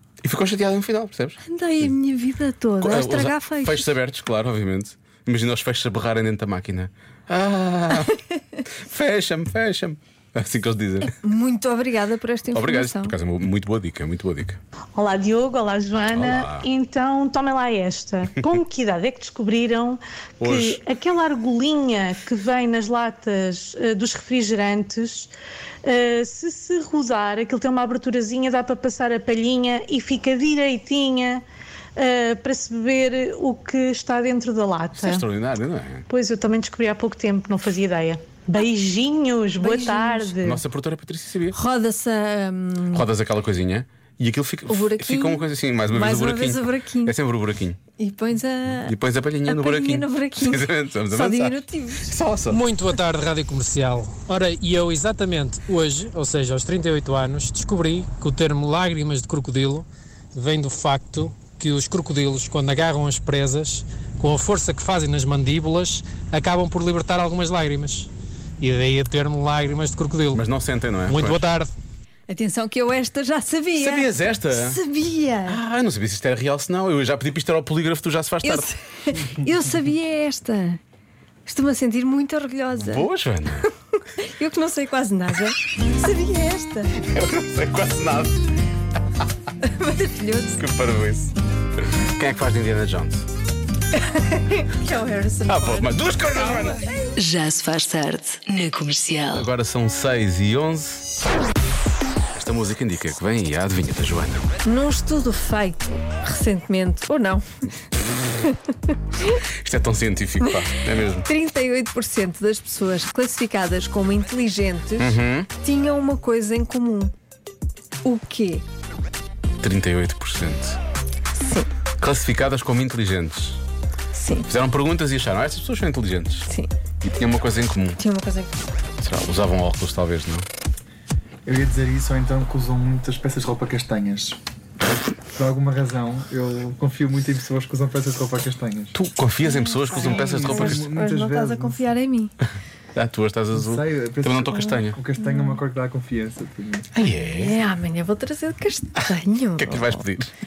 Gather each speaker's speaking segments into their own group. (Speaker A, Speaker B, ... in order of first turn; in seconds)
Speaker A: 0.2-1.9, 2.8-11.1, 12.5-14.6, 16.1-16.7, 20.4-20.8, 34.9-36.1, 40.4-41.6, 42.9-47.8, 48.8-52.6, 70.3-71.5, 73.8-74.8, 75.5-78.7, 82.8-83.7, 87.0-88.4, 90.6-91.3, 92.2-93.3, 95.5-96.8, 99.3-101.1, 102.3-104.5, 109.6-111.3, 115.0-115.5, 119.6-120.8, 122.0-123.6, 124.5-126.5, 127.0-128.0, 129.0-130.5, 138.9-140.8, 142.9-145.0, 146.9-147.6, 149.6-150.3
Speaker B: 1.4-3.9, 11.2-13.1, 39.6-40.4, 41.5-43.0, 44.7-47.1, 48.0-48.9, 49.5-52.1, 72.3-75.6, 78.4-80.8, 81.5-83.1, 84.2-86.9, 89.6-90.6, 94.0-97.0, 104.6-107.5, 110.4-110.7, 111.2-117.1, 118.0-118.6, 121.4-121.7, 124.1-124.5, 128.0-128.6, 139.4-142.3, 145.2-145.6, 147.4-150.0
Speaker C: 14.9-25.3, 25.8-31.4, 31.9-35.2, 36.1-40.6
Speaker D: 52.5-70.4, 71.0-71.7
Speaker E: 97.2-99.5
Speaker F: 131.4-134.4, 135.3-138.9, 139.9-141.8, 143.5-146.9